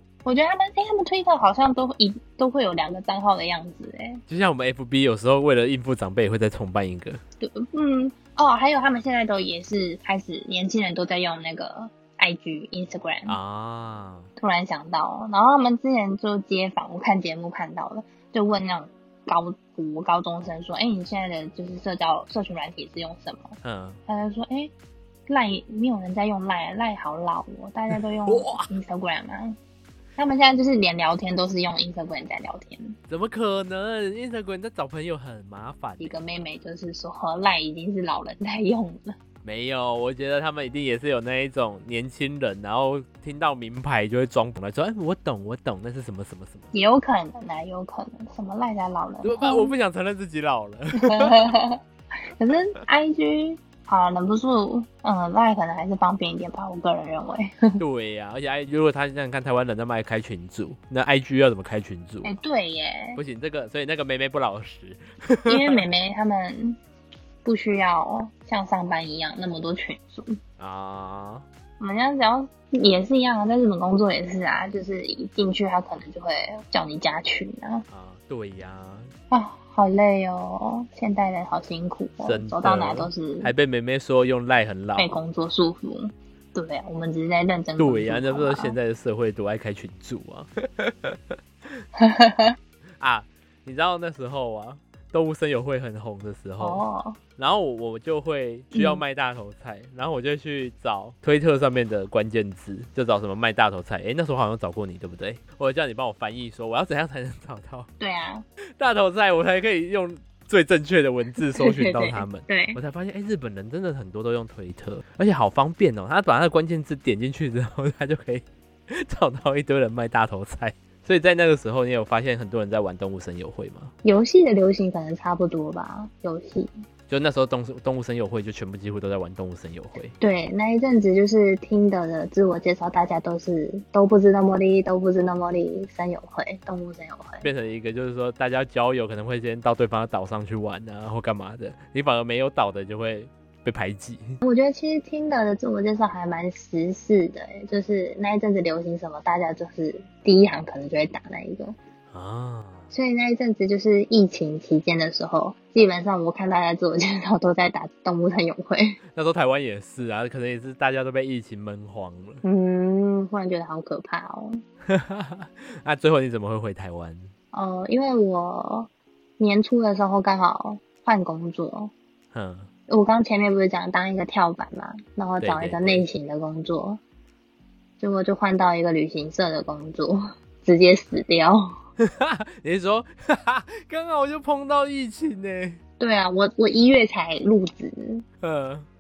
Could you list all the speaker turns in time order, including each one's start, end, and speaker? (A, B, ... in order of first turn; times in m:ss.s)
0:00.2-0:04.2 A
0:04.3-0:07.2 B
0:07.4-0:13.4 A
0:13.3-0:14.3 B
0:14.4-0:24.7 A
0:23.6-0:24.0 B
0:25.3-0:29.6 A
0:27.9-0:28.7 B
0:30.2-0:33.0 A
0:33.1-0:36.2 B
0:36.0-0:39.2 A
0:39.4-0:46.7 B
0:46.7-0:49.7 A
0:49.2-0:51.5 B
0:51.0-0:57.8 A
0:57.8-1:02.3 B
1:02.2-1:03.2 A
1:03.2-1:05.8 B
1:05.5-1:06.8 A
1:07.4-1:10.4 A
1:10.6-1:11.4 B
1:11.8-1:17.8 A
1:17.9-1:19.1 B
1:19.3-1:23.5 A
1:22.2-1:25.2 B
1:25.0-1:28.8 A
1:27.8-1:31.8 B
1:32.0-1:32.6 A
1:33.0-1:36.8 B
1:36.6-1:37.2 A
1:37.4-1:47.9 B
1:38.7-1:39.0 A
1:48.0-1:48.4 A
1:48.8-2:03.9 B
1:51.4-1:52.8 A
2:04.0-2:06.7 A
2:07.1-2:10.2 B
2:10.2-2:17.5 A
2:17.4-2:24.4 B
2:24.4-2:31.8 A
2:32.1-2:32.9 B
2:32.9-2:39.0 A
2:39.2-2:42.4 B
2:42.4-2:44.6 A
2:44.9-2:47.3 B
2:47.5-2:51.9 A
2:52.3-2:52.7 B
2:52.9-2:57.0 A
2:55.4-2:56.0 B
2:58.0-3:01.7 A
3:02.0-3:05.8 B
3:06.0-3:08.3 A
3:08.4-3:08.9 B